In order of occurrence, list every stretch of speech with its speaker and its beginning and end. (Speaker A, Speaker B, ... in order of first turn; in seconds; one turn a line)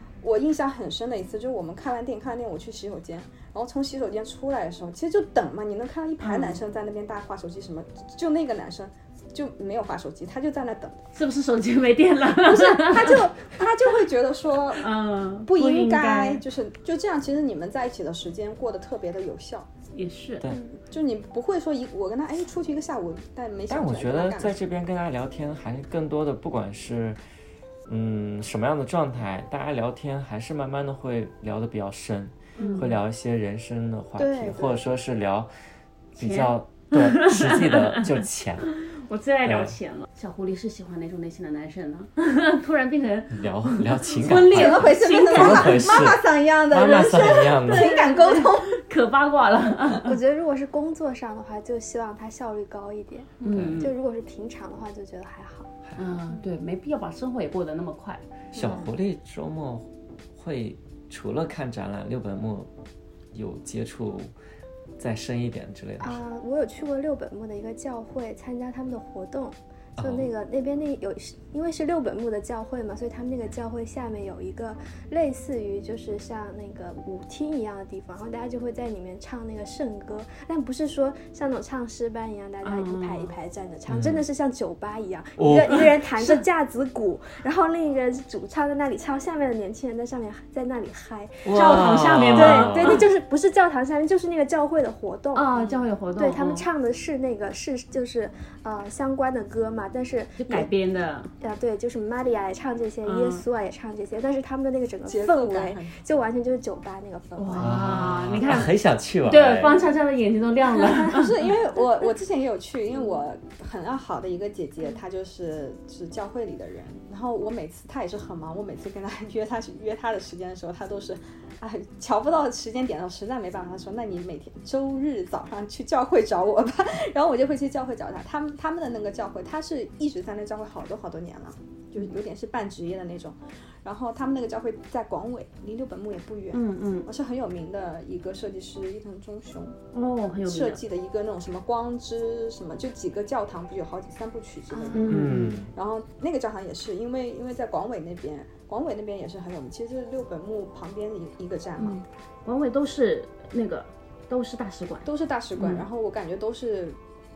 Speaker A: 0.2-11.0
Speaker B: 6.2-6.6
Speaker B: 11.1-13.2
Speaker A: 12.4-14.9
Speaker B: 14.8-16.4
Speaker A: 15.4-19.7
Speaker B: 19.9-20.5
Speaker C: 20.5-20.8
Speaker A: 20.9-24.6
Speaker D: 23.7-27.2
Speaker D: 27.9-35.5
Speaker B: 32.6-32.9
Speaker C: 34.2-34.8
Speaker D: 36.1-38.7
Speaker B: 36.2-46.1
Speaker D: 39.4-39.7
Speaker D: 43.3-47.9
Speaker A: 44.5-48.7
Speaker B: 46.9-50.1
Speaker C: 50.0-55.7
Speaker B: 53.4-53.9
Speaker D: 53.4-53.9
Speaker B: 56.0-58.2
Speaker D: 58.5-62.7
Speaker C: 58.5-58.9
Speaker D: 63.3-64.3
Speaker D: 65.0-66.2
Speaker C: 66.0-95.5
Speaker D: 70.0-70.3
Speaker B: 82.6-83.3
Speaker D: 83.9-84.2
Speaker D: 85.4-86.0
Speaker D: 91.4-93.0
Speaker B: 91.5-93.0
Speaker B: 95.3-96.7
Speaker C: 96.2-100.7
Speaker B: 100.4-101.3
Speaker C: 101.4-108.1
Speaker B: 103.0-103.4
Speaker A: 105.0-106.0
Speaker B: 107.3-108.7
Speaker D: 107.6-109.8
Speaker B: 109.2-111.5
Speaker A: 110.8-139.8
Speaker B: 136.5-137.1
Speaker B: 139.9-140.8
Speaker A: 140.4-152.0
Speaker C: 144.7-145.1
Speaker B: 144.9-145.6
Speaker D: 145.0-145.7
Speaker B: 151.8-155.8
Speaker A: 155.0-157.0